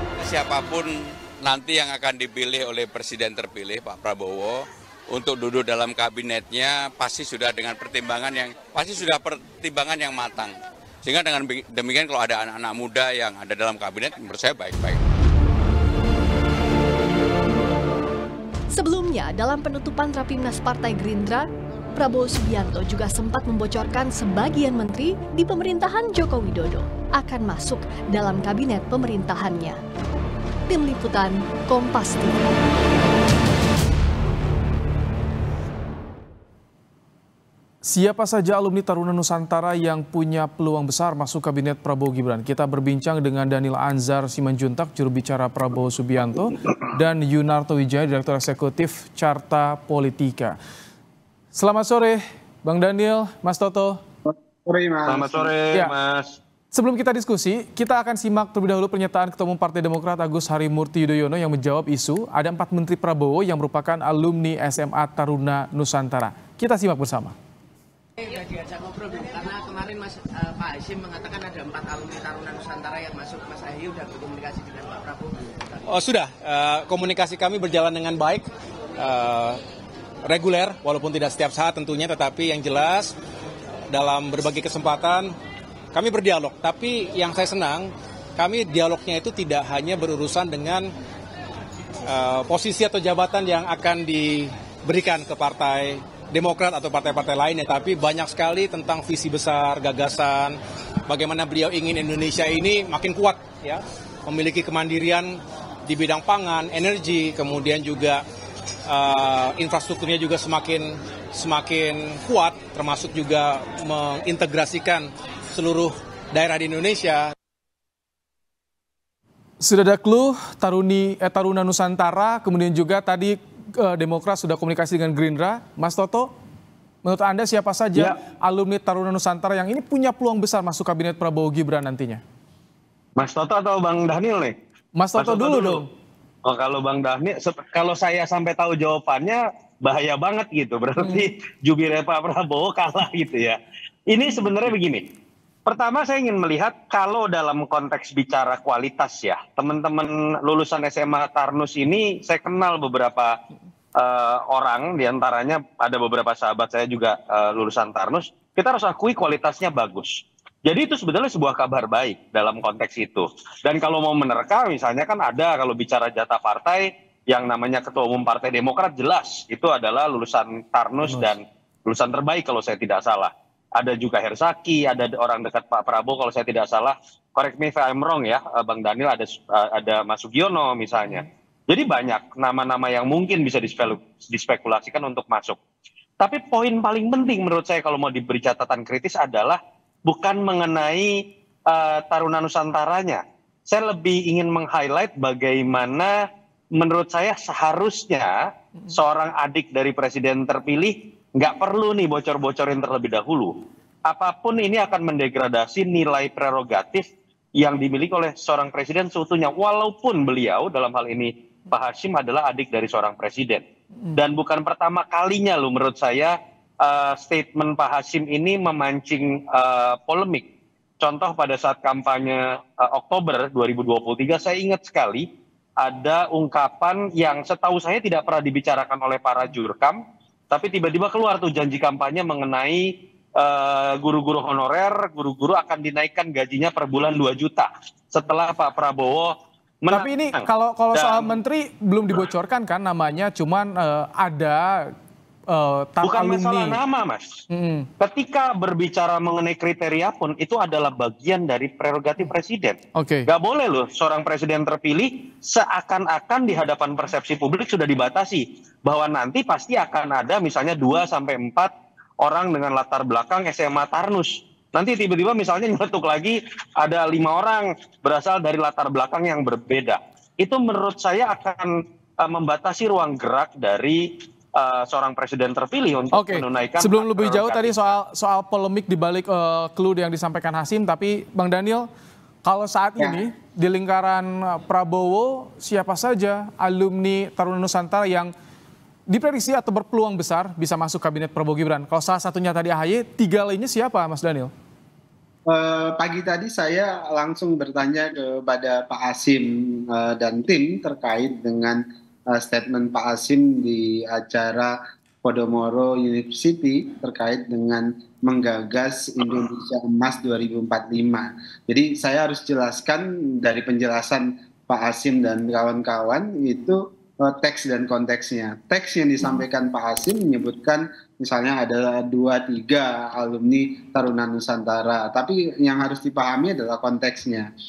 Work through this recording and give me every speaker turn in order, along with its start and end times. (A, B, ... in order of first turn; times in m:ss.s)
0:00.2-0:15.0 A
0:18.7-0:29.8 B
0:30.7-0:32.4 B
0:37.8-0:50.6 C
0:51.5-0:54.0 C
0:54.2-0:55.5 D
0:55.1-0:56.4 E
0:56.7-1:07.3 C
1:08.2-1:15.8 F
1:15.8-1:19.6 G
1:20.2-1:23.2 G
1:23.9-1:25.4 G
1:25.9-1:30.9 G
1:32.0-1:48.2 G
1:48.9-1:57.3 G
1:59.6-2:06.3 C
2:07.0-2:12.2 C
2:13.2-2:14.5 E
2:15.0-2:15.9 C
2:15.2-2:15.8 E
2:16.5-2:23.6 E
2:24.1-2:25.0 E
2:25.7-2:33.4 E
2:34.0-2:40.2 E
2:40.7-3:05.6 E
3:06.2-3:11.1 E
3:11.7-3:16.1 E
3:16.8-3:18.3 E
3:18.9-3:23.5 E
3:24.1-3:27.0 E
3:27.6-3:40.4 E
3:41.0-3:45.2 E
3:45.8-3:50.0 E
3:50.5-3:52.9 E
3:53.4-4:01.4 E
3:59.9-4:04.9 C
4:05.5-4:06.8 C
4:06.0-4:07.2 E
4:07.5-4:07.9 C
4:08.0-4:21.7 E
4:13.0-4:13.3 C
4:22.2-4:31.7 E
4:32.2-4:34.0 E
4:34.6-4:37.9 E
4:36.1-4:41.9 C
4:42.4-4:48.3 C
4:49.1-4:54.5 C
4:55.5-5:01.8 D
5:02.3-5:27.5 D